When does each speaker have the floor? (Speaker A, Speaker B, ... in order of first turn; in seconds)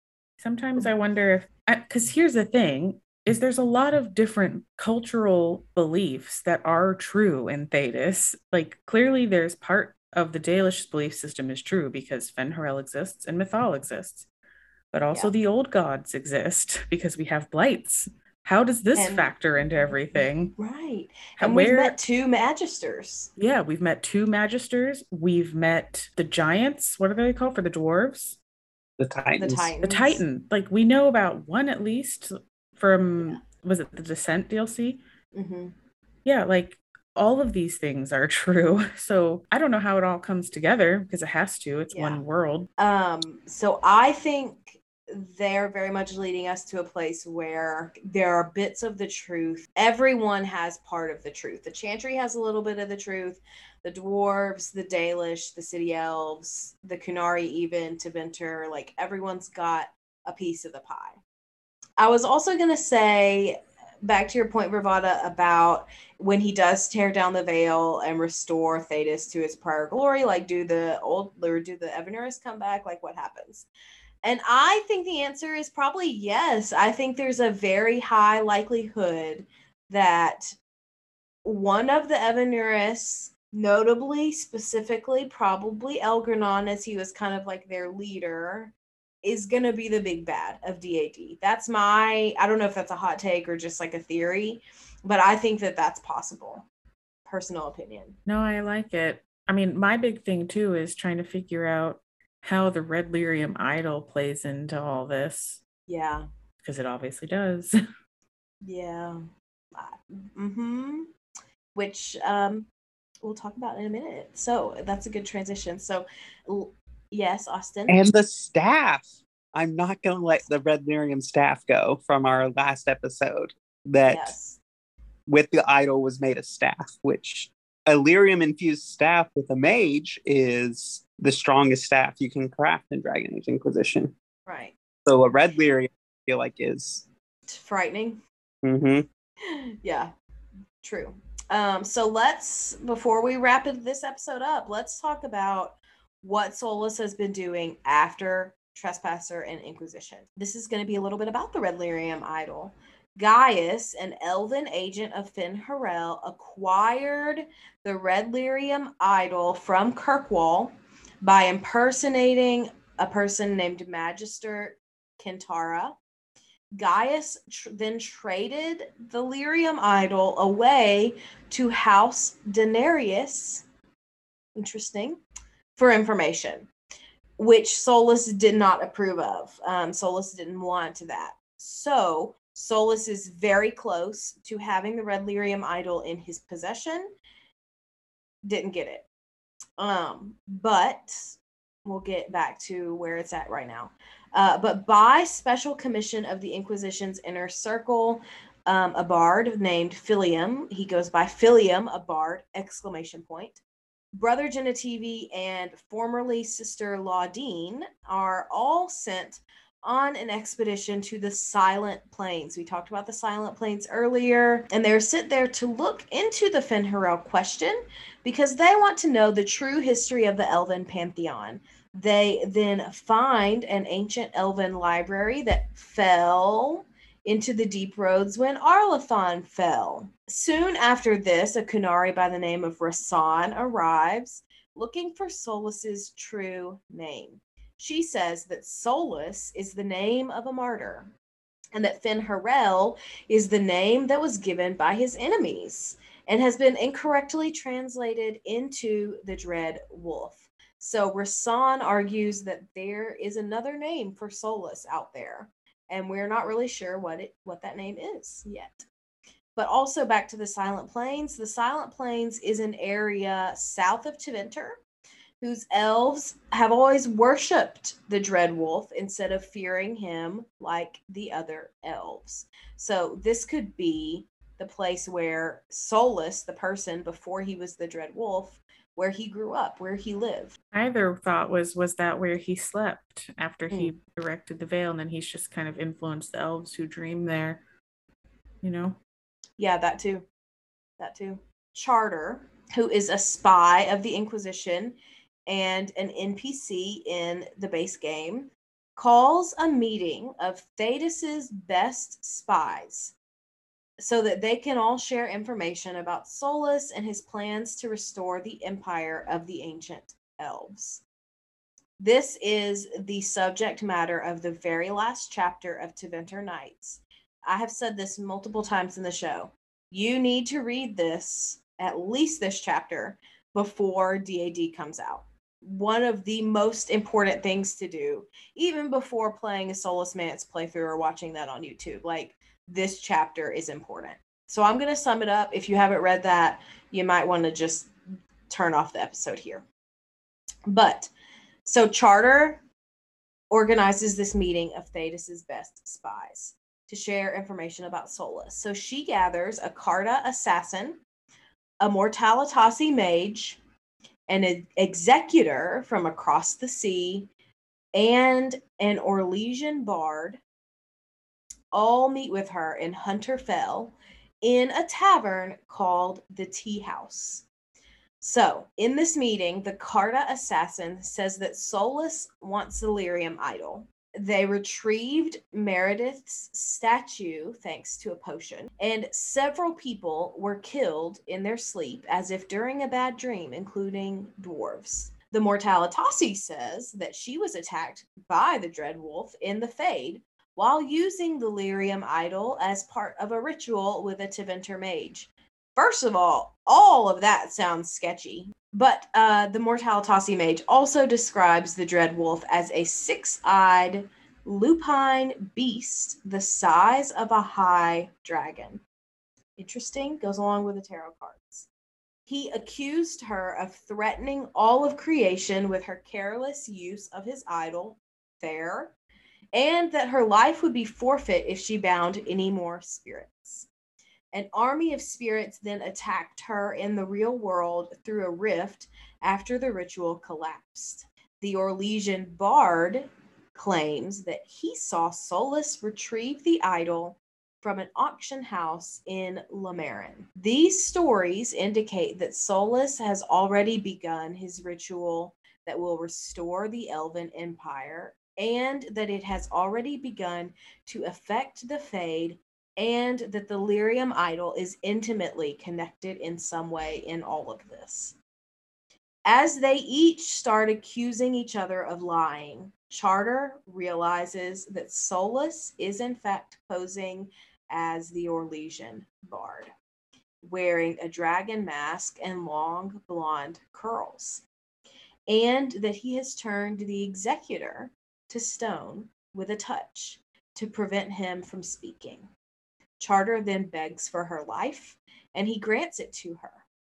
Speaker A: 0.4-14.3, 14.9-20.5, 21.4-21.9, 23.4-28.4, 29.8-35.0, 36.2-42.7, 98.2-105.6, 106.6-107.7, 280.7-287.6, 288.6-289.0
Speaker B: 18.9-23.3, 29.4-30.2, 35.3-35.7, 41.9-42.2, 42.8-61.2, 62.0-73.7, 74.2-80.6, 81.4-96.6, 97.2-98.2, 105.9-106.3, 108.6-109.2, 109.7-111.1, 111.7-112.7, 113.2-118.0, 124.0-124.6, 134.4-134.7, 137.5-138.2, 139.4-140.1, 140.8-165.9, 166.8-173.6, 174.6-175.2, 175.8-176.7, 177.4-187.1, 188.4-189.1, 189.8-203.6, 204.1-241.1, 241.7-258.8, 259.6-264.8, 265.4-280.5, 289.6-290.2, 291.0-303.1, 304.0-311.0, 312.0-337.9, 338.5-339.6, 340.7-341.1, 341.6-342.6, 343.5-351.0, 351.8-353.6, 354.3-357.3, 357.9-360.4, 361.7-367.4, 368.2-408.8, 409.6-411.7, 412.3-418.9, 419.5-423.7, 424.3-458.1, 459.2-469.7, 470.4-474.4, 475.3-482.3, 483.0-486.6
Speaker C: 29.0-29.7, 117.9-124.3, 125.3-134.1, 135.0-137.0, 138.6-139.1